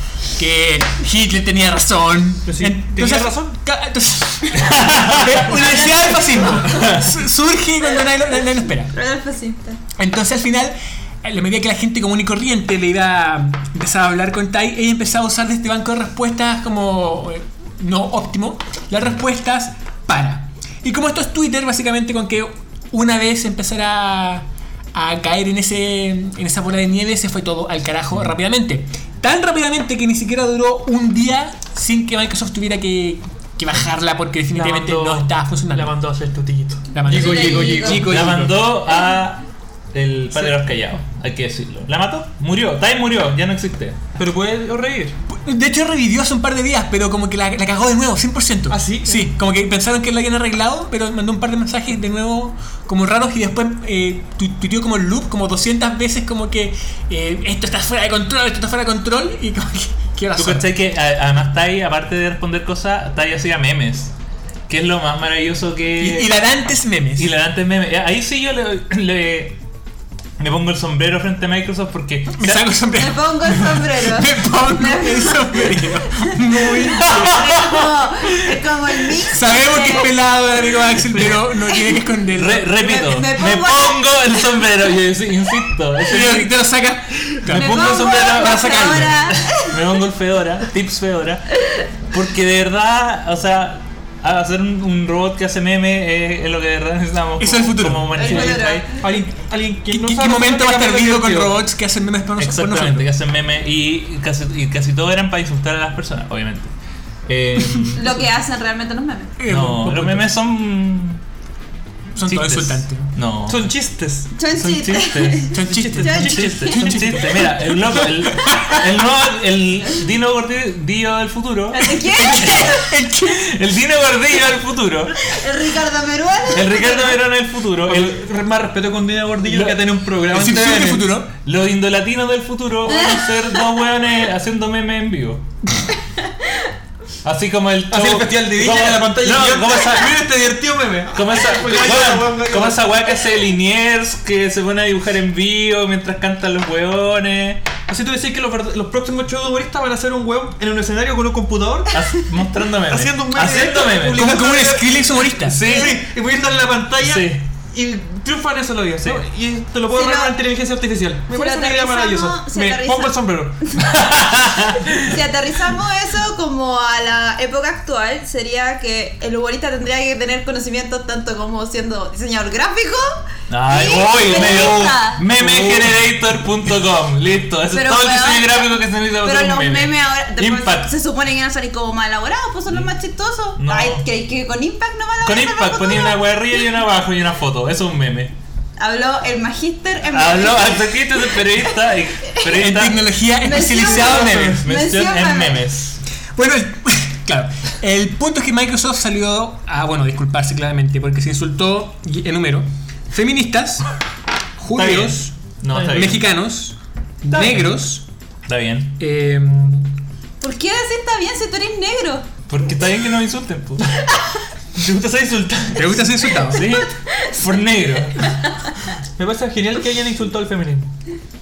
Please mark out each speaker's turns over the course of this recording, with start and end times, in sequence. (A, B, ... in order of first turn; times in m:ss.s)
0:00.4-0:08.9 A
0:02.4-0:03.6 B
0:04.5-0:05.4 C
0:05.6-0:06.9 D
0:06.5-0:07.1 C
0:08.9-0:09.8 D
0:10.0-0:36.0 A
0:34.5-0:38.2 B
0:36.9-0:38.7 A
0:37.0-0:38.1 D
0:37.8-0:39.4 C
0:39.9-0:44.0 C
0:40.3-0:40.6 B
0:44.2-0:45.2 B
0:45.3-1:00.7 A
0:48.7-0:49.3 B
1:00.3-1:04.1 C
1:04.7-1:06.3 C
1:06.0-1:07.3 A
1:07.2-1:09.6 C
1:10.4-1:12.7 C
1:12.4-1:17.3 A
1:13.0-1:20.1 D
1:17.0-1:17.9 C
1:19.2-1:22.8 A
1:22.3-1:26.6 C
1:22.8-1:24.6 D
1:26.0-1:29.3 A
1:27.4-1:31.6 C
1:27.5-1:29.8 D
1:32.1-1:38.9 C
1:37.4-1:38.6 A
1:38.1-1:39.0 D
1:38.9-1:41.6 B
1:39.9-1:43.1 A
1:42.4-1:46.7 C
1:47.3-1:48.2 C
1:47.6-1:48.2 A
1:47.9-1:49.3 D
1:49.4-1:50.3 A
1:49.4-1:51.2 C
1:52.2-1:53.1 A
1:52.2-1:53.7 C
1:53.5-1:54.3 B
1:54.3-1:56.3 D
1:54.5-2:02.5 C
1:55.5-1:58.9 A
1:55.6-1:57.3 B
2:01.7-2:02.9 D
2:02.0-2:03.5 A
2:03.2-2:05.3 C
2:05.2-2:07.2 D
2:06.5-2:08.2 C
2:07.8-2:11.1 B
2:09.4-2:09.8 C
2:10.3-2:11.3 A
2:11.4-2:15.4 C
2:12.9-2:13.2 D
2:17.2-2:20.2 C
2:17.9-2:23.1 B
2:21.1-2:27.6 C
2:27.9-2:32.0 B
2:31.9-2:34.4 C
2:32.9-2:43.6 B
2:34.1-2:35.6 A
2:35.4-2:36.0 C
2:35.7-2:36.0 D
2:37.0-2:37.4 C
2:39.9-2:40.3 D
2:41.3-2:43.2 D
2:43.8-2:45.1 C
2:45.0-2:53.2 D
2:53.5-3:00.9 C
2:53.7-2:55.2 D
2:55.4-2:55.8 B
2:57.7-3:06.2 D
3:03.6-3:04.0 C
3:05.2-3:08.3 C
3:08.8-3:11.7 D
3:10.1-3:13.0 C
3:12.5-3:14.6 A
3:13.4-3:15.6 D
3:13.8-3:16.0 C
3:14.2-3:14.6 B
3:16.3-3:23.8 A
3:24.6-3:28.0 A
3:24.7-3:26.2 C
3:25.7-3:26.1 B
3:27.3-3:27.6 B
3:27.4-3:27.6 C
3:28.5-3:29.0 C
3:29.0-3:29.9 A
3:30.4-3:32.2 D
3:32.5-3:34.0 C
3:34.7-3:36.3 B
3:35.7-3:36.7 A
3:36.4-3:38.3 C
3:39.2-3:40.9 B